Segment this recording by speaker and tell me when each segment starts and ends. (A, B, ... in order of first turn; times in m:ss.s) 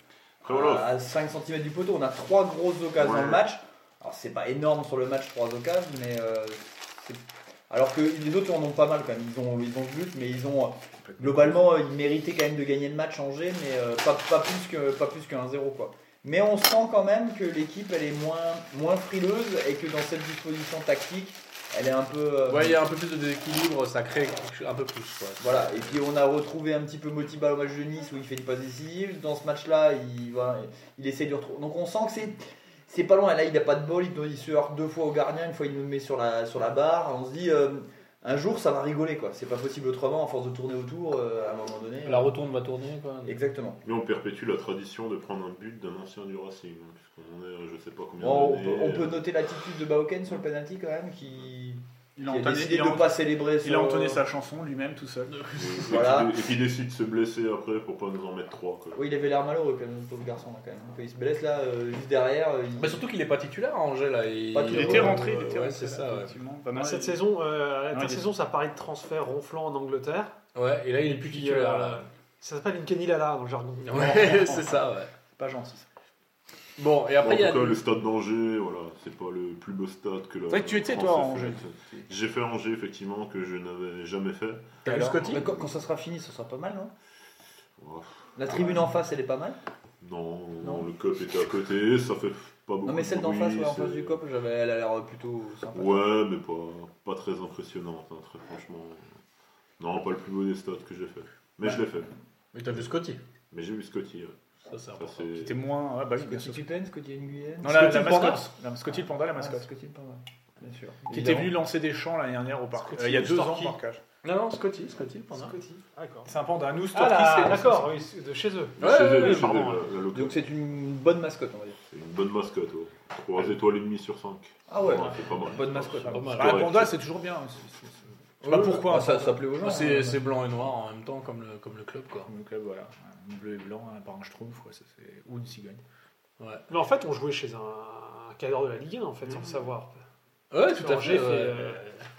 0:00.4-0:00.9 A
0:00.5-0:22.8 B
0:03.0-0:03.4 A
0:11.0-0:11.6 C
0:22.5-0:26.0 D
0:25.4-0:42.3 B
0:42.0-0:43.4 D
0:43.2-0:43.8 B
0:43.8-0:49.2 A
0:48.2-0:54.2 B
0:52.2-0:55.4 C
0:55.3-0:56.2 D
0:55.6-0:59.0 A
0:55.8-0:56.3 B
0:59.0-1:03.0 B
1:02.8-1:06.4 D
1:04.5-1:05.4 B
1:04.7-1:07.2 C
1:06.7-1:10.3 E
1:07.9-1:08.2 C
1:10.6-1:12.1 D
1:11.2-1:14.2 E
1:13.8-1:15.1 D
1:14.0-1:14.8 C
1:15.4-1:15.9 C
1:16.8-1:17.8 D
1:17.2-1:25.6 A
1:20.5-1:22.1 C
1:24.8-1:25.5 D
1:24.8-1:26.9 B
1:27.8-1:28.9 A
1:28.4-1:29.6 B
1:30.0-1:34.2 A
1:30.6-1:30.9 B
1:32.8-1:36.1 B
1:35.7-1:39.1 A
1:39.8-1:42.1 A
1:42.5-1:43.2 D
1:43.5-1:45.6 A
1:44.7-1:45.2 D
1:45.3-1:46.7 C
1:46.2-1:48.1 B
1:47.6-1:49.7 C
1:47.7-1:48.5 D
1:48.9-1:51.6 B
1:51.1-1:54.0 C
1:52.9-1:55.6 D
1:55.3-1:56.3 E
1:56.3-1:57.9 C
1:56.9-1:59.8 E
1:58.8-2:00.4 A
1:58.8-1:59.8 D
2:00.1-2:01.8 B
2:01.9-2:06.9 A
2:04.7-2:06.6 B
2:06.1-2:06.7 D
2:06.2-2:09.4 C
2:08.4-2:08.8 D
2:08.6-2:10.2 B
2:09.6-2:12.3 D
2:12.3-2:15.8 C
2:16.4-2:16.6 D
2:16.7-2:19.9 E
2:20.5-2:21.8 D
2:20.7-2:22.0 E